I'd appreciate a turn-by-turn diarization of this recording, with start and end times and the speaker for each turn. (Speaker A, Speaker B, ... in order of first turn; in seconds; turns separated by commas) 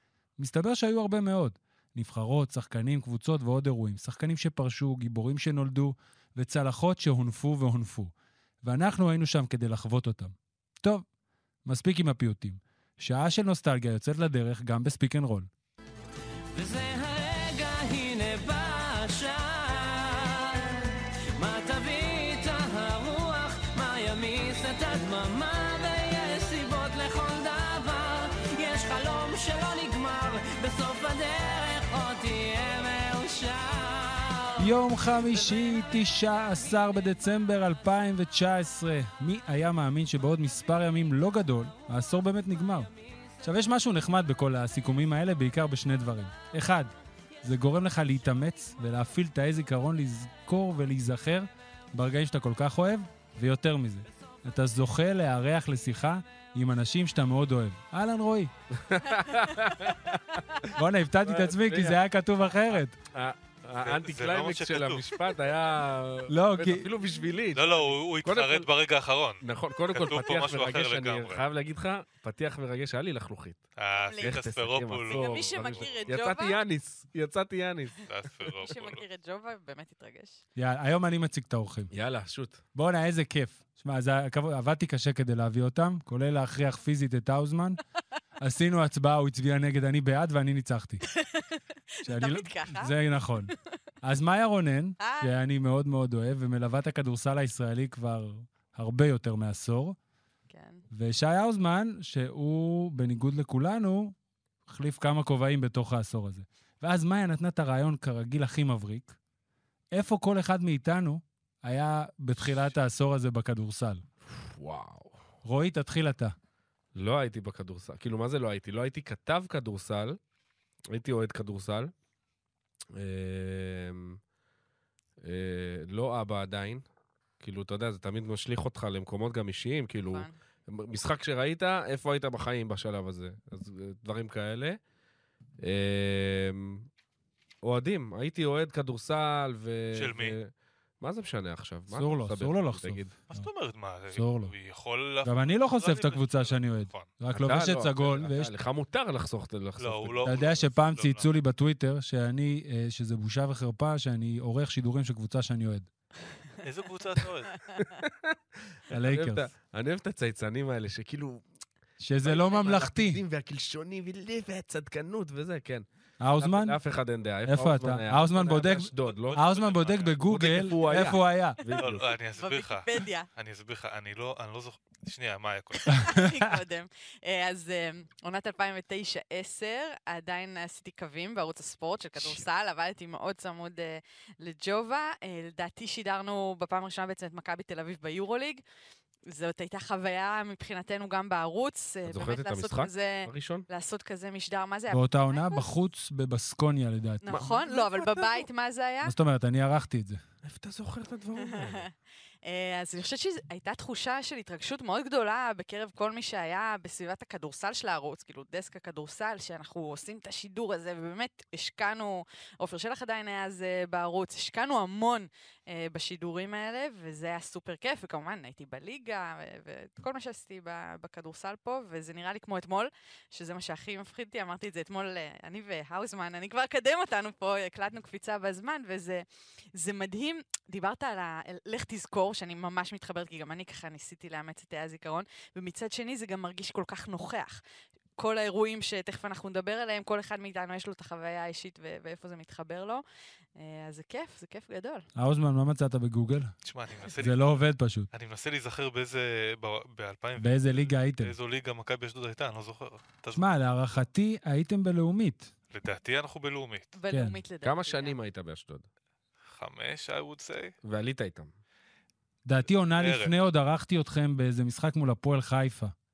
Speaker A: 0.4-11.0, Speaker A: 11.6-15.5, Speaker B: 16.5-35.9, Speaker A: 34.6-42.9, Speaker A: 43.4-46.9, Speaker A: 47.4-58.5, Speaker C: 58.7-60.6, Speaker A: 60.7-63.0, Speaker C: 61.2-62.0, Speaker C: 63.1-68.7, Speaker D: 63.8-65.1, Speaker A: 66.3-66.9, Speaker D: 67.5-71.4, Speaker C: 69.4-73.6, Speaker D: 73.8-76.1, Speaker E: 74.1-74.4, Speaker C: 74.2-78.5, Speaker E: 75.0-76.6, Speaker D: 78.1-79.0, Speaker E: 78.6-80.4, Speaker A: 80.6-81.9, Speaker C: 81.9-82.6, Speaker A: 82.7-87.8, Speaker A: 88.4-91.0, Speaker E: 91.2-93.0, Speaker A: 92.0-100.0, Speaker E: 95.0-95.3, Speaker E: 100.5-100.8, Speaker A: 100.9-104.2, Speaker A: 104.7-109.2, Speaker A: 109.9-114.0, Speaker C: 114.3-115.2, Speaker A: 115.4-116.3, Speaker C: 116.9-120.2, Speaker C: 120.9-121.9, Speaker C: 122.9-124.2, Speaker C: 125.2-126.8, Speaker C: 127.4-134.8, Speaker C: 135.6-136.9, Speaker C: 137.6-143.1, Speaker D: 139.9-140.3, Speaker A: 141.9-143.5, Speaker D: 143.3-147.1, Speaker A: 144.1-144.5, Speaker A: 145.2-148.5, Speaker C: 147.3-150.4, Speaker D: 149.8-151.2, Speaker A: 150.2-155.9, Speaker D: 156.6-157.6, Speaker C: 157.8-161.4, Speaker A: 158.9-159.4, Speaker A: 162.0-163.2, Speaker C: 162.2-165.8, Speaker A: 166.2-166.8, Speaker C: 166.4-169.4, Speaker A: 167.5-171.6, Speaker D: 169.1-170.5, Speaker C: 170.2-172.1, Speaker D: 171.7-176.2, Speaker E: 172.4-173.3, Speaker E: 175.8-188.6, Speaker A: 175.9-176.5, Speaker E: 189.3-195.7, Speaker C: 192.1-193.7, Speaker A: 194.9-197.5, Speaker E: 197.2-199.1, Speaker C: 197.3-198.5, Speaker A: 199.0-200.2, Speaker C: 200.4-201.9, Speaker E: 201.5-201.9, Speaker E: 202.4-237.6, Speaker E: 238.2-243.0, Speaker E: 243.6-245.1, Speaker A: 245.1-246.5, Speaker D: 246.6-247.6, Speaker A: 247.2-248.1, Speaker D: 248.1-253.5, Speaker A: 250.4-251.3, Speaker A: 253.3-255.5, Speaker D: 255.7-256.9, Speaker E: 256.9-258.1, Speaker A: 257.1-257.4, Speaker C: 257.6-258.9, Speaker D: 259.5-260.7, Speaker C: 260.8-261.5, Speaker A: 262.4-265.9, Speaker D: 262.9-263.3